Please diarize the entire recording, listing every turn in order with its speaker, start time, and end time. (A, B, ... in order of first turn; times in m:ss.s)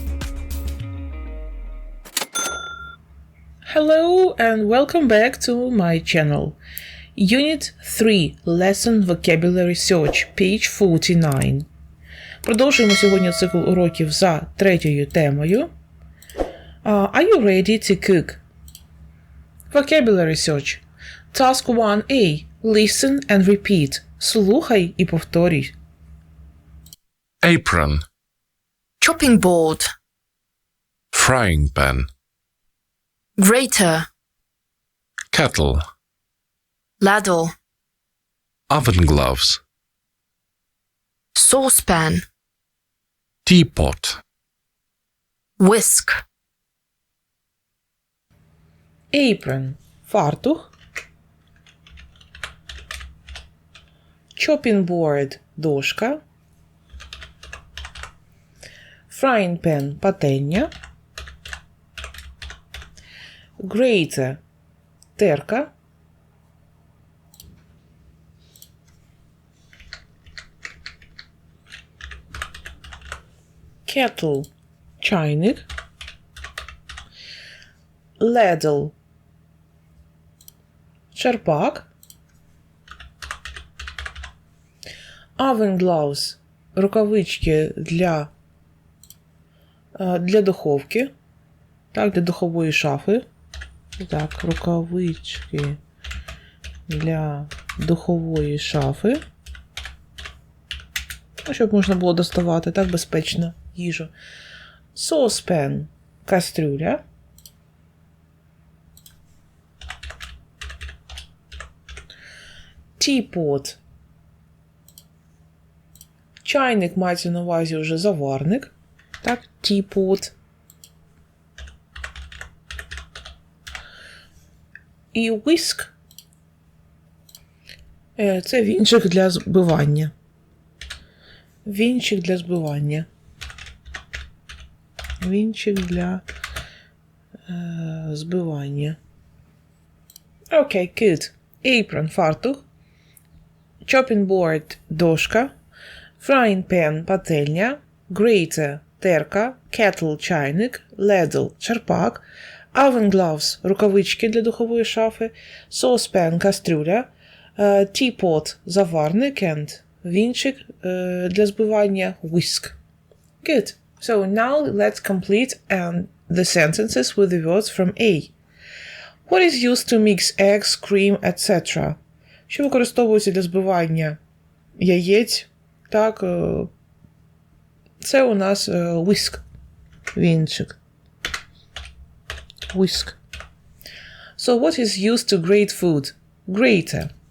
0:03.6-0:06.6 A
0:07.2-0:11.7 A
0:12.4-0:15.7 A
0:16.8-0:18.4 A
0:19.7-0:20.8 A
0:21.3-0:25.8 A
0:27.4-0:28.0 B
0:29.0-0:29.9 C
0:31.1-0:32.1 B
0:33.4-0:34.1 C
0:35.3-0:35.8 B
0:37.0-0:37.5 C
0:38.7-0:39.6 B
0:41.4-0:42.2 C
0:43.5-0:44.2 B
0:45.6-0:46.2 C
0:49.1-0:50.7 A
0:54.4-0:56.2 A
0:59.1-1:00.7 A
1:03.6-1:04.4 A
1:05.2-1:05.7 A
1:13.9-1:14.5 A
1:15.0-1:15.7 A
1:18.2-1:18.9 A
1:21.1-1:21.9 A
1:25.4-1:28.3 A
1:30.0-1:31.1 A
1:31.9-1:33.2 A
1:34.0-1:35.8 A
1:36.9-1:39.2 A
1:41.5-1:44.1 A
1:45.0-1:47.0 A
1:53.0-1:53.8 A
1:56.4-2:00.3 A
2:05.1-2:05.9 A
2:08.2-2:10.1 A
2:11.6-2:13.1 A
2:15.2-2:16.2 A
2:17.5-2:19.0 A
2:20.5-2:22.6 A
2:23.8-2:25.5 A
2:26.2-2:42.8 A
2:43.4-2:48.3 A
2:49.3-2:54.2 A
2:54.8-2:56.7 A
2:58.0-2:59.4 A
3:00.2-3:00.8 A
3:02.7-3:03.2 A
3:04.4-3:07.1 A